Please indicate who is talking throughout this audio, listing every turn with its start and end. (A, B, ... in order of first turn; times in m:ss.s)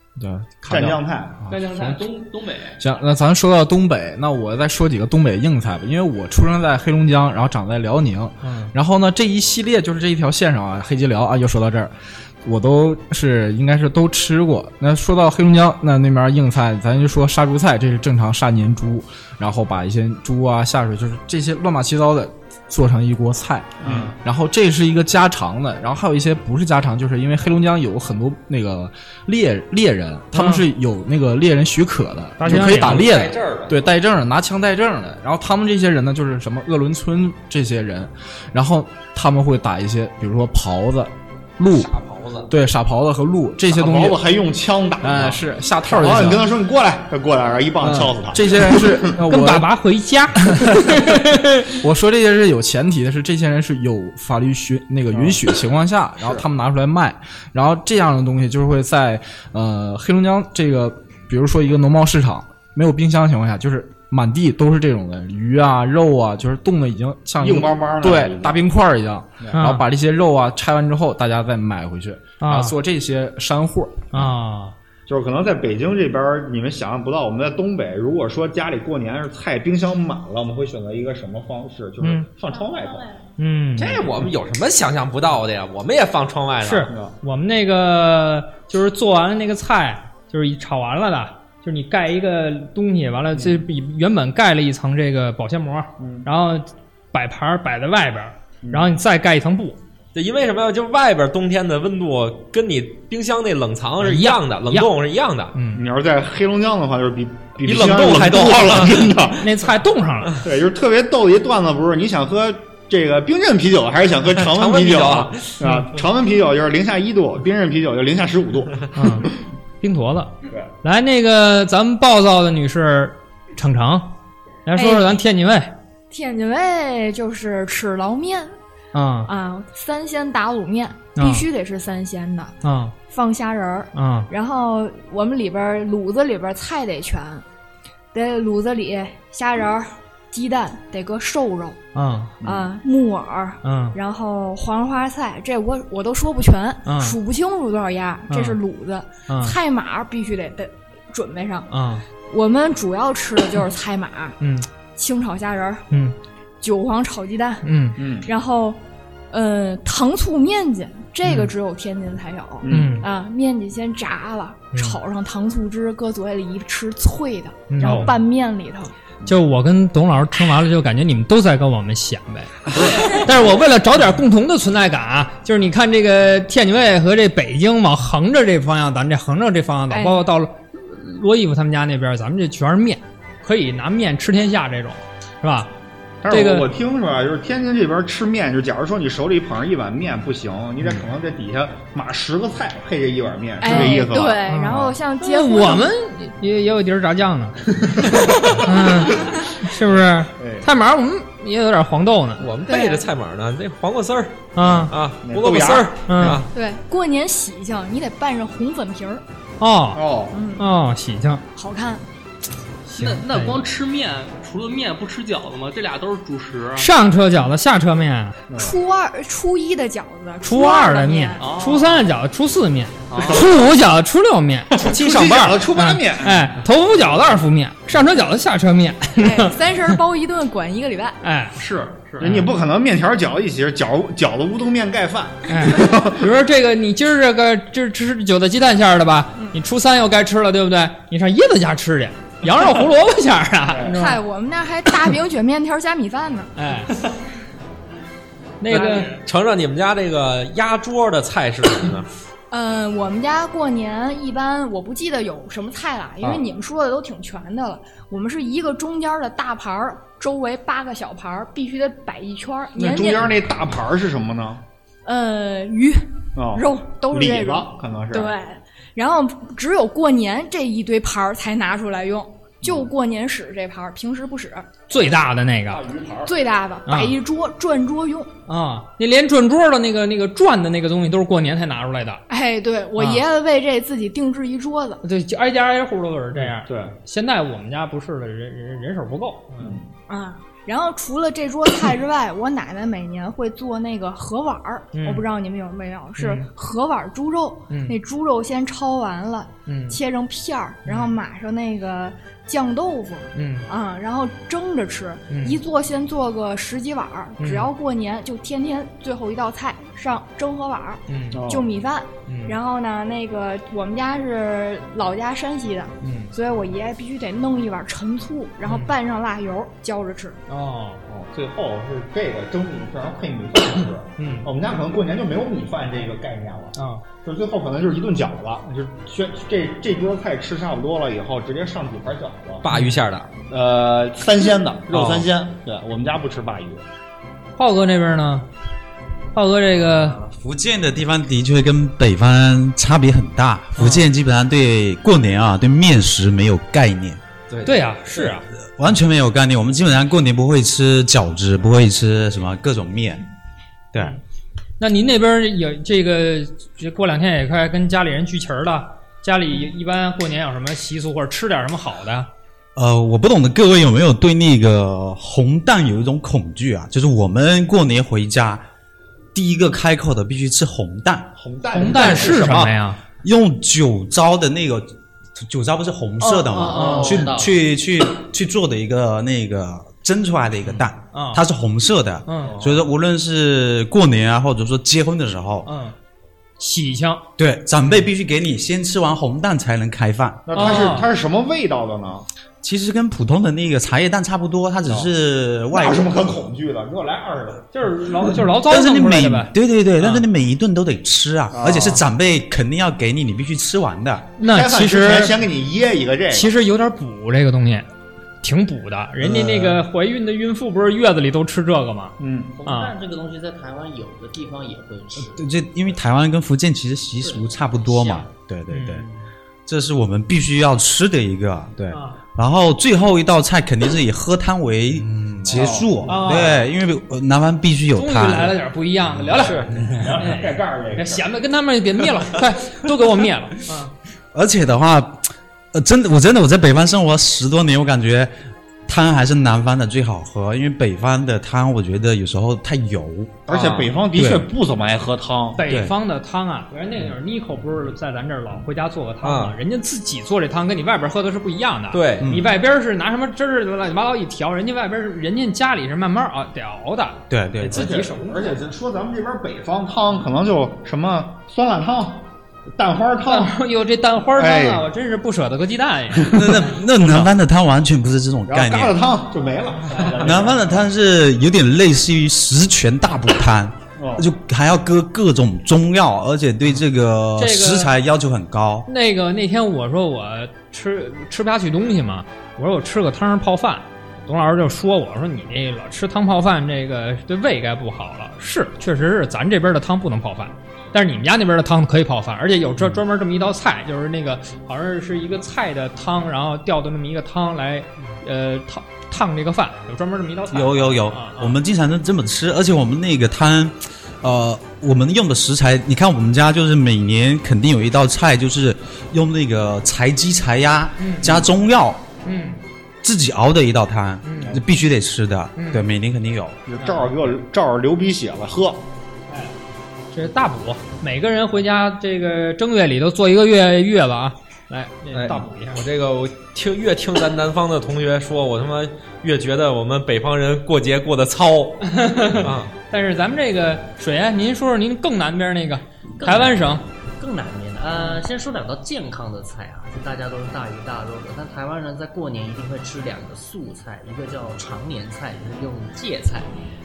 0:00.2-0:02.1 A
0:00.7-0:01.4 B
0:01.5-0:02.8 C
0:02.8-0:41.9 A
0:08.4-0:08.7 D
0:23.8-0:24.1 B
0:30.3-0:30.6 D
0:32.4-0:33.0 D
0:32.5-0:33.8 E
0:41.7-0:42.5 E
0:42.4-0:44.2 A
0:43.7-0:49.0 B
0:45.0-0:46.5 A
0:47.8-0:49.7 A
0:49.3-0:51.7 D
0:50.4-1:14.3 A
0:55.1-0:55.4 B
1:07.4-1:08.6 B
1:09.5-1:09.8 D
1:12.4-1:12.7 D
1:14.1-1:14.7 D
1:15.1-1:23.1 B
1:22.0-1:22.3 D
1:23.4-1:24.1 D
1:23.8-1:26.9 E
1:26.6-1:39.8 D
1:33.3-1:33.6 B
1:36.0-1:36.2 B
1:38.6-1:38.9 B
1:40.1-1:45.5 E
1:44.0-1:44.9 D
1:45.5-1:45.8 D
1:45.7-1:49.5 B
1:47.6-1:49.2 E
1:49.4-1:50.4 D
1:50.4-1:59.2 B
1:54.4-1:55.5 E
1:55.6-1:55.9 D
1:58.9-1:59.3 D
1:59.8-2:04.1 D
2:04.6-2:05.7 D
2:04.7-2:05.2 F
2:06.1-2:08.6 F
2:08.9-2:09.3 D
2:09.2-2:12.5 F
2:11.2-2:11.5 D
2:12.6-2:12.9 D
2:13.1-2:17.4 F
2:13.9-2:14.3 D
2:18.1-2:21.8 F
2:21.9-2:22.3 D
2:22.4-2:31.7 F
2:22.4-2:22.7 B
2:23.6-2:24.0 D
2:26.8-2:27.2 D
2:28.3-2:28.6 D
2:29.3-2:29.6 D
2:31.7-2:32.0 D
2:32.2-2:34.4 F
2:34.4-2:34.6 D
2:34.9-2:35.8 F
2:36.6-2:37.7 F
2:37.6-2:38.0 D
2:38.0-2:38.3 B
2:38.2-2:38.8 F
2:39.3-2:48.9 F
2:41.2-2:41.5 D
2:42.6-2:43.0 B
2:42.7-2:43.1 D
2:47.7-2:48.1 D
2:47.8-2:48.1 B
2:49.2-3:05.7 D
2:52.7-2:53.2 B
2:59.9-3:00.2 F
3:06.2-3:14.9 B
3:06.3-3:06.7 D
3:13.6-3:15.9 F
3:13.6-3:22.4 D
3:17.8-3:18.7 B
3:19.8-3:20.7 B
3:22.4-3:26.5 E
3:22.7-3:23.0 F
3:24.5-3:24.9 D
3:25.2-3:25.9 B
3:26.1-3:26.4 D
3:26.5-3:29.2 F
3:29.6-3:30.0 D
3:29.9-3:30.4 B
3:30.3-3:30.7 F
3:30.6-3:31.4 D
3:31.5-3:32.0 F
3:32.9-3:36.8 C
3:32.9-3:33.6 D
3:36.8-3:38.4 D
3:38.5-3:41.5 F
3:40.4-3:49.9 D
3:41.4-3:42.0 C
3:43.1-3:43.4 C
3:43.2-3:43.5 B
3:44.8-3:46.5 B
3:49.2-3:51.2 F
3:51.2-3:51.6 D
3:51.6-3:56.2 B
3:52.2-3:52.5 D
3:55.5-4:04.2 D
4:03.7-4:03.9 B
4:03.9-4:06.5 F
4:06.6-4:06.9 D
4:08.6-4:09.1 D
4:08.7-4:12.1 E
4:12.5-4:23.4 F
4:22.7-4:24.6 B
4:25.0-4:34.7 F
4:26.4-4:28.3 B
4:32.6-4:32.9 B
4:34.9-4:35.8 D
4:35.7-4:36.3 B
4:36.2-4:38.3 F
4:36.8-4:37.1 D
4:38.5-4:42.2 D
4:42.3-4:45.0 F
4:43.0-4:43.2 D
4:45.0-4:49.7 D
4:46.4-4:46.9 B
4:49.6-4:49.9 B
4:50.1-5:20.4 F
4:54.9-4:55.2 D
4:56.2-4:56.5 D
4:57.7-4:58.0 D
4:59.7-5:00.0 D
5:00.8-5:01.1 D
5:03.3-5:03.7 D
5:05.3-5:05.6 D
5:07.4-5:07.7 D
5:11.1-5:11.4 D
5:11.3-5:11.7 B
5:12.3-5:12.6 D
5:16.0-5:16.3 D
5:18.6-5:18.9 D
5:20.5-5:21.0 D
5:21.1-5:32.6 B
5:24.2-5:24.5 D
5:26.8-5:27.0 D
5:32.6-5:33.3 E
5:32.7-5:33.0 D
5:33.5-5:36.8 B
5:34.9-5:35.3 E
5:37.6-5:38.5 D
5:39.3-5:40.2 D
5:40.2-5:47.2 G
5:43.8-5:44.1 D
5:47.5-5:48.3 E
5:47.6-5:48.4 D
5:48.8-5:53.2 G
5:54.8-6:02.3 D
6:02.8-6:08.6 G
6:09.3-6:11.3 G
6:11.3-6:12.7 B
6:11.7-6:13.0 D
6:13.2-6:25.7 G
6:16.2-6:17.2 D
6:16.6-6:17.6 H
6:21.1-6:21.4 D
6:22.2-6:22.5 D
6:22.4-6:22.8 B
6:25.6-6:25.9 D
6:26.6-6:27.2 D
6:27.4-6:30.5 G
6:30.4-6:32.2 B
6:30.5-6:31.1 D
6:32.6-6:36.2 G
6:35.7-6:37.7 B
6:37.7-6:40.2 D
6:38.6-6:44.3 G
6:41.5-6:42.0 B
6:44.4-6:45.3 D
6:44.4-6:46.5 B
6:46.3-6:47.9 D
6:48.4-6:52.1 D
6:49.4-6:49.7 G
6:52.2-6:52.5 B
6:52.6-6:55.4 H
6:52.6-6:52.9 D
6:55.2-6:59.0 G
6:57.2-6:58.3 H
6:58.7-6:59.1 D
6:59.6-7:08.6 G
7:01.9-7:02.2 D
7:05.4-7:06.2 B
7:06.1-7:06.6 D
7:07.9-7:13.9 D
7:09.4-7:11.3 B
7:09.7-7:10.0 G
7:14.3-7:18.3 G
7:18.8-7:23.4 G
7:23.5-7:25.6 B
7:23.5-7:23.9 E
7:24.1-7:24.5 G
7:25.6-7:38.6 D
7:25.7-7:25.9 G
7:29.2-7:29.5 E
7:31.9-7:32.2 E
7:32.2-7:32.5 G
7:37.3-7:37.9 G
7:37.7-7:43.5 B
7:43.3-7:46.5 D
7:44.3-7:44.8 B
7:46.3-7:49.0 G
7:46.3-7:47.3 B
7:48.5-7:50.8 B
7:49.9-7:50.3 D
7:50.2-7:58.9 G
7:54.0-7:54.3 B
7:57.4-7:57.9 D
7:58.9-8:21.6 D
8:20.5-8:32.1 G
8:31.0-8:31.5 D
8:32.2-8:32.6 D
8:33.0-8:36.6 G
8:34.2-8:34.6 D
8:35.5-8:35.9 D
8:36.6-8:38.8 B
8:36.8-8:37.1 D
8:40.1-8:45.8 D
8:45.1-8:52.7 E
8:51.8-8:56.8 D
8:56.2-9:06.5 H
8:57.9-8:58.2 D